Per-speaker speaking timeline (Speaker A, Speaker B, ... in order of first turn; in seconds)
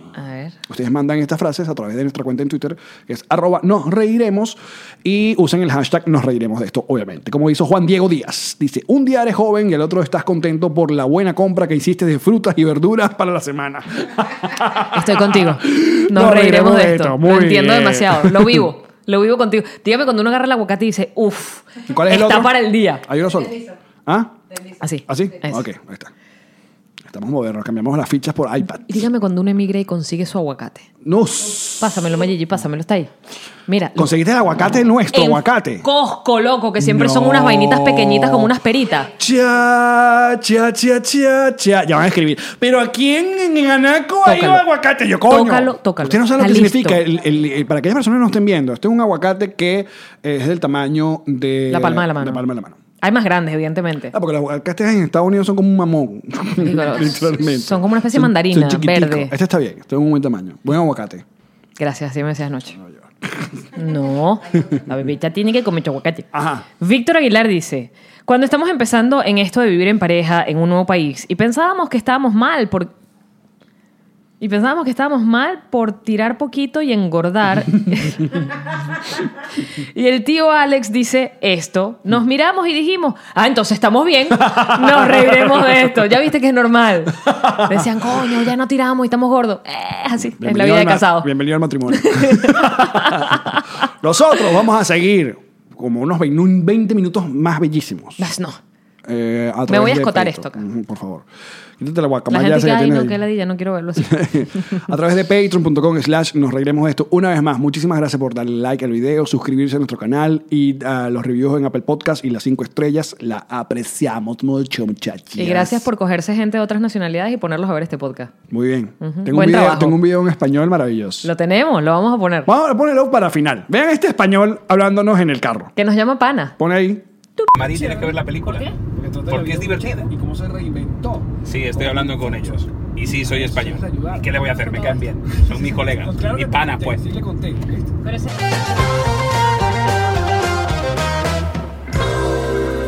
Speaker A: 0.1-0.6, 14.9-23.0, 24.8-25.6, 28.8-30.9, 31.8-33.1, 33.7-34.1, 35.1-39.1, 44.2-44.6, 45.3-47.0, 51.7-52.4, 53.0-54.1, 56.6-59.3, 61.8-62.8, 63.8-66.3, 66.8-72.9, 74.4-78.5, 79.2-91.3, 91.9-93.6, 98.2-98.6, 99.7-100.6, 102.3-104.8, 115.4-118.3, 119.0-120.0, 121.2-122.5, 125.8-126.6, 138.0-138.4
Speaker B: 0.7-18.7, 21.9-24.4, 25.1-26.1, 27.0-29.0, 31.0-32.2, 34.0-35.9, 36.8-38.5, 39.1-52.8, 54.1-61.2, 62.8-63.5, 66.3-66.7, 84.5-85.7, 87.3-88.3, 90.2-98.3, 99.0-101.2, 101.8-103.2, 104.0-115.9, 118.5-121.3, 122.5-125.7, 126.6-127.0, 127.6-128.2, 128.7-137.9
Speaker C: 127.5-128.7, 129.3-130.1, 131.4-137.0